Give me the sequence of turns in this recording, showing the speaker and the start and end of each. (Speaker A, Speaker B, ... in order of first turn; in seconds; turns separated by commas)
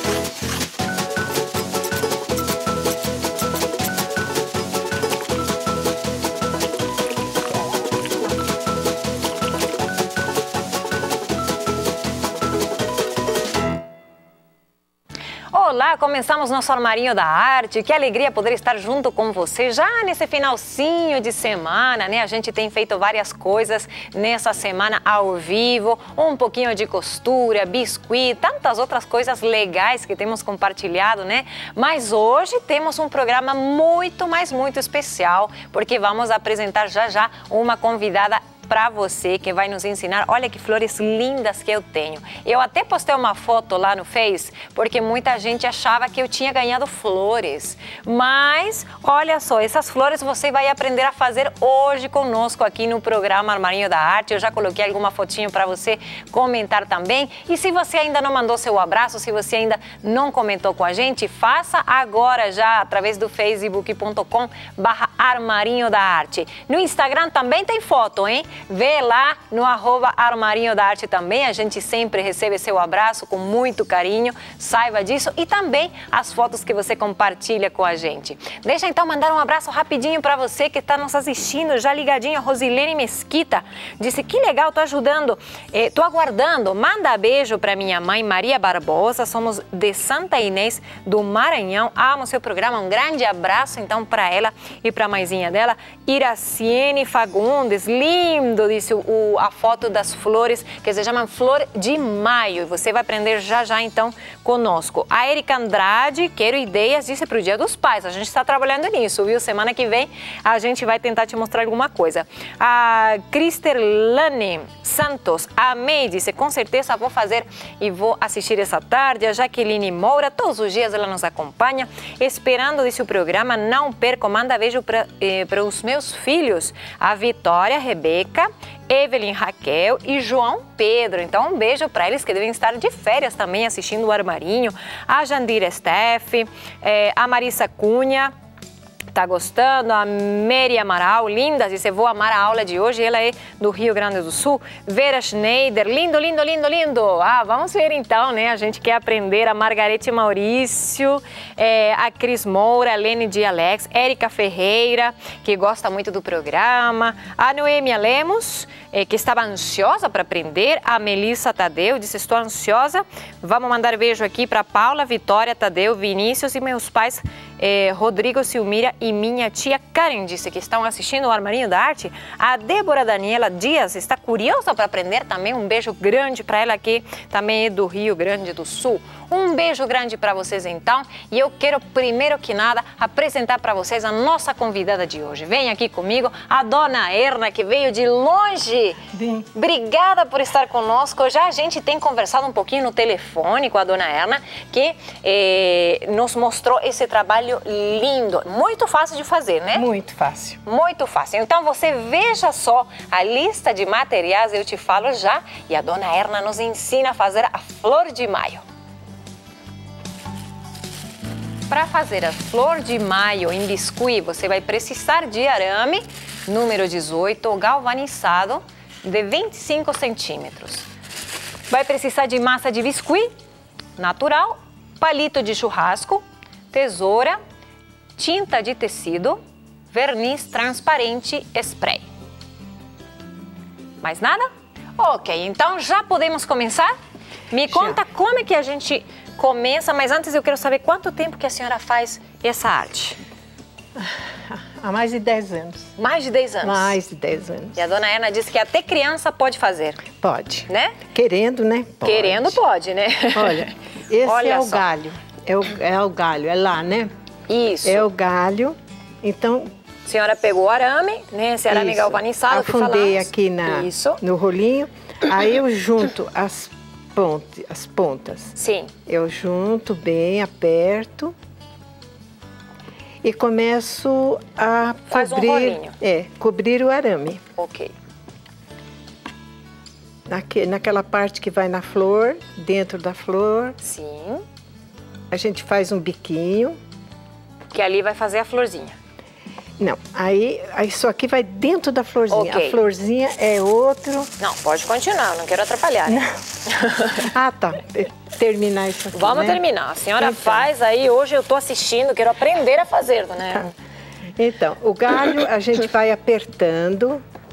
Speaker A: 15.5-138.3, Speaker A: 139.1-189.0, Speaker B: 189.1-189.5, Speaker A: 189.5-199.8, Speaker B: 199.7-200.6, Speaker A: 200.6-208.6, Speaker A: 211.7-220.9, Speaker A: 221.7-223.3, Speaker A: 224.0-227.4, Speaker A: 228.2-229.4, Speaker A: 229.9-232.0, Speaker A: 234.0-236.9, Speaker A: 237.5-243.2, Speaker B: 237.7-238.0, Speaker B: 244.0-245.9, Speaker A: 246.0-247.0, Speaker B: 246.6-247.8, Speaker A: 247.7-250.0, Speaker B: 250.2-252.6, Speaker A: 250.7-251.0, Speaker A: 252.0-253.7, Speaker B: 253.3-257.1, Speaker A: 254.2-254.8, Speaker A: 257.5-258.1, Speaker B: 257.8-259.7, Speaker A: 260.0-264.2, Speaker B: 261.7-268.5, Speaker A: 268.6-268.9, Speaker B: 269.1-271.3, Speaker B: 273.2-277.4, Speaker A: 275.1-275.9, Speaker A: 277.6-277.9, Speaker B: 280.3-283.8, Speaker A: 283.8-284.4, Speaker B: 285.3-286.8, Speaker A: 287.7-289.0, Speaker B: 289.8-294.3, Speaker A: 292.3-292.8, Speaker A: 294.4-297.3, Speaker B: 297.2-299.6, Speaker A: 299.1-303.7, Speaker B: 300.2-300.7, Speaker B: 304.4-307.2